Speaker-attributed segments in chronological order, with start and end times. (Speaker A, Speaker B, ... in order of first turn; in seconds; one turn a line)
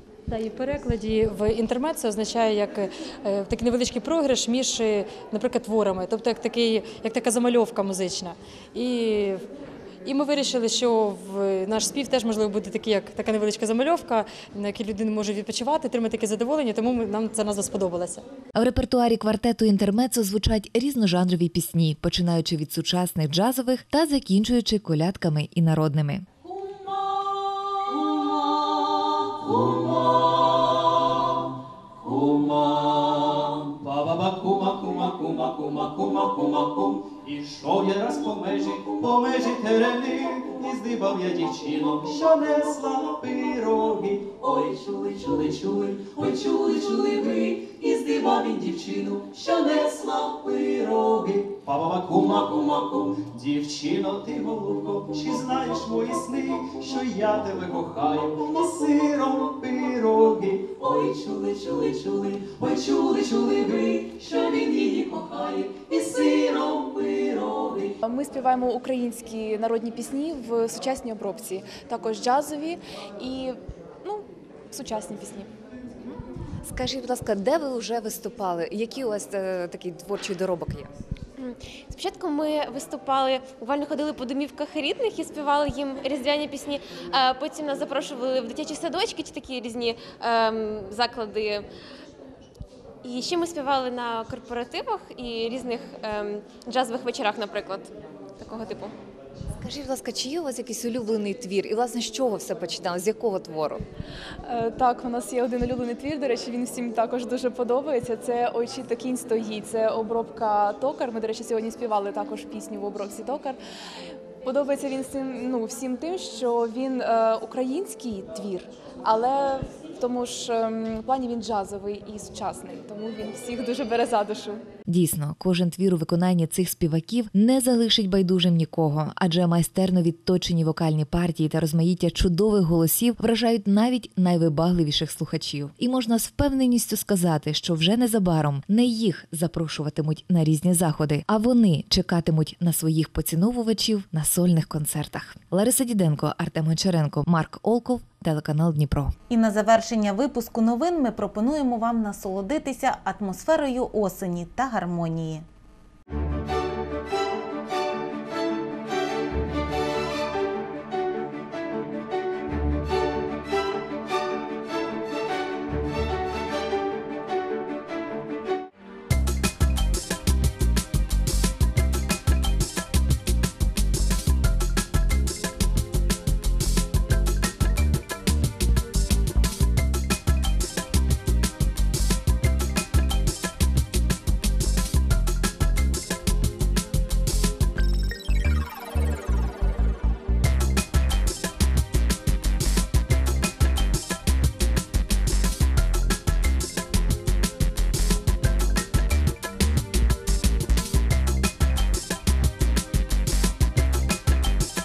Speaker A: 0.3-9.4
Speaker A: 10.1-18.2
Speaker B: 18.6-26.3
Speaker C: 26.4-31.4
Speaker C: 32.0-68.0
Speaker D: 68.0-75.5
Speaker B: 76.0-80.9
Speaker E: 81.4-91.7
Speaker E: 93.0-98.9
Speaker B: 99.6-103.8
Speaker D: 104.5-113.6
Speaker D: 114.4-124.6
Speaker B: 124.9-149.2
Speaker F: 149.3-155.4